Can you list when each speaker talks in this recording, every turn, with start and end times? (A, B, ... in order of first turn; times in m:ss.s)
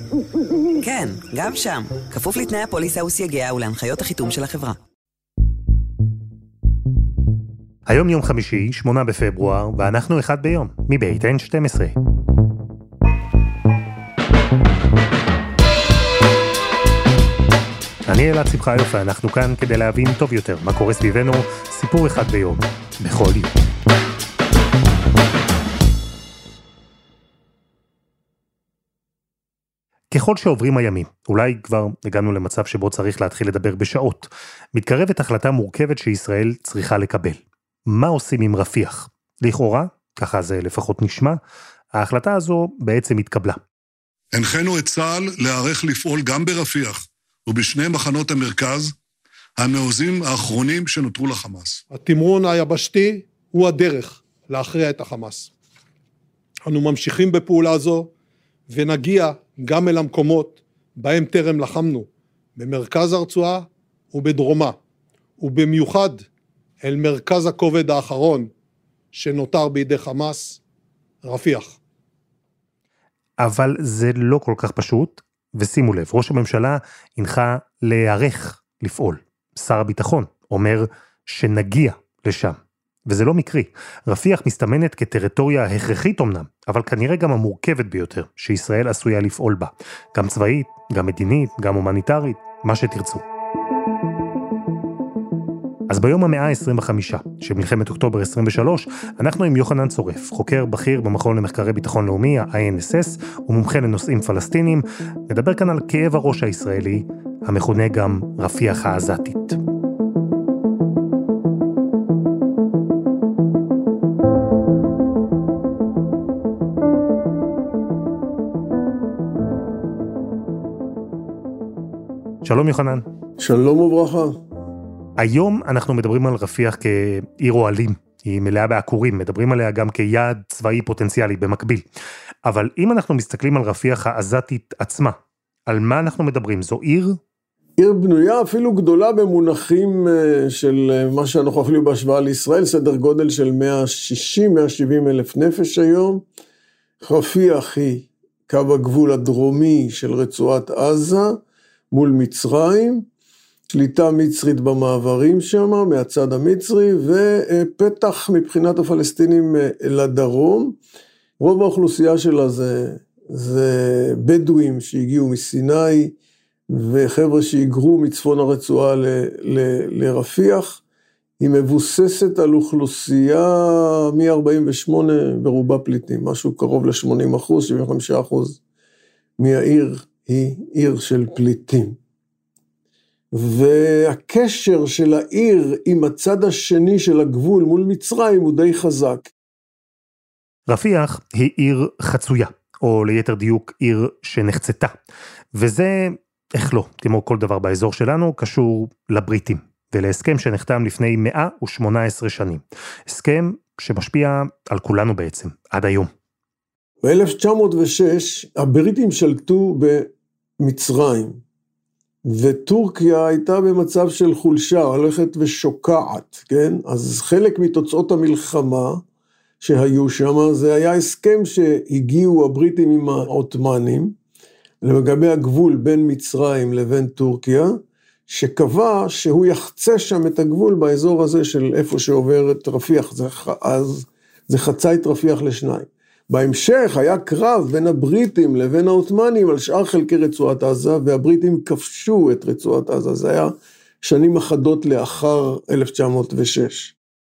0:00.8-0:04.8 A
0:07.9-0:12.0 B
0:18.1-0:23.5 B
0:30.1-0:41.4 B
0:41.9-0:43.6 B
0:44.3-0:48.9 C
0:49.6-0:51.8 C
0:51.9-0:55.5 D
0:56.7-0:58.1 D
0:58.7-1:04.8 D
1:05.4-1:06.2 D
1:06.8-1:08.5 D
1:09.1-1:10.6 D
1:11.2-1:11.8 D
1:13.4-1:33.2 B
1:35.9-1:49.6 B
2:02.4-2:03.0 B
2:03.4-2:04.4 E
2:05.2-2:11.8 B
2:12.4-2:17.2 B
2:17.8-2:26.2 E
2:27.0-2:31.4 E
2:31.9-2:33.1 E
2:33.7-2:40.8 E
2:41.4-2:46.2 E
2:46.7-2:50.8 E
2:51.4-2:58.6 E
2:59.4-3:02.0 E
3:03.3-3:09.3 E
3:10.7-3:14.9 B
3:15.6-3:26.1 B
3:27.0-3:31.4 E
3:32.2-3:39.0 E
3:39.6-3:44.2 E
3:44.8-4:06.9 E